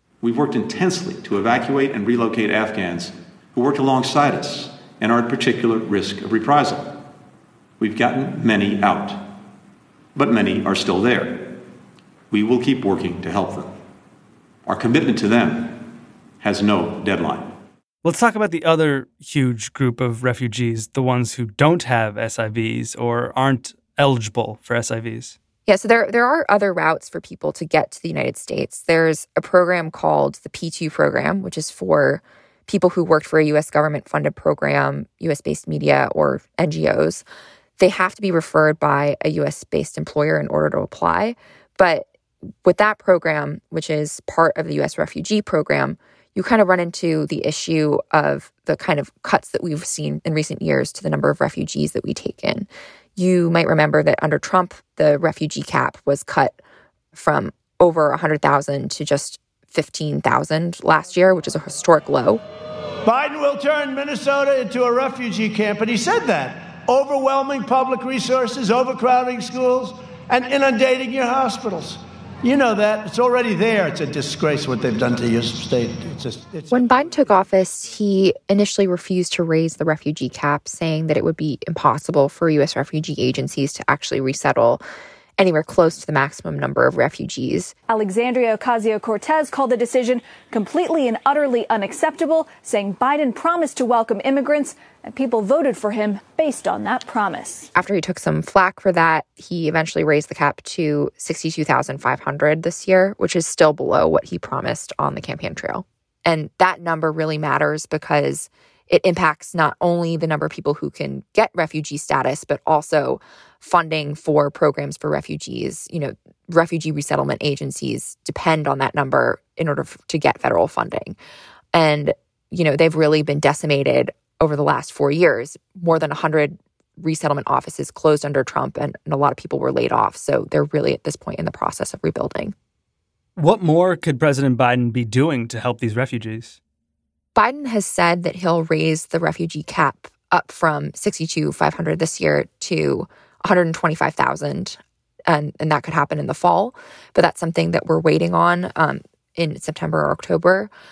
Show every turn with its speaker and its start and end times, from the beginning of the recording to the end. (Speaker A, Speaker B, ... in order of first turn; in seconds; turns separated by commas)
Speaker A: 0.2-7.0, Speaker A: 7.8-9.3, Speaker A: 10.2-11.6, Speaker A: 12.3-13.7, Speaker A: 14.7-17.6, Speaker B: 18.0-25.4, Speaker C: 25.7-37.2, Speaker C: 37.8-42.1, Speaker C: 42.6-56.6, Speaker C: 57.1-62.4, Speaker D: 63.0-76.9, Speaker C: 76.7-84.8, Speaker C: 85.4-87.7, Speaker E: 87.9-97.7, Speaker C: 97.8-121.2, Speaker C: 121.7-132.6, Speaker B: 133.4-136.6, Speaker C: 137.3-150.7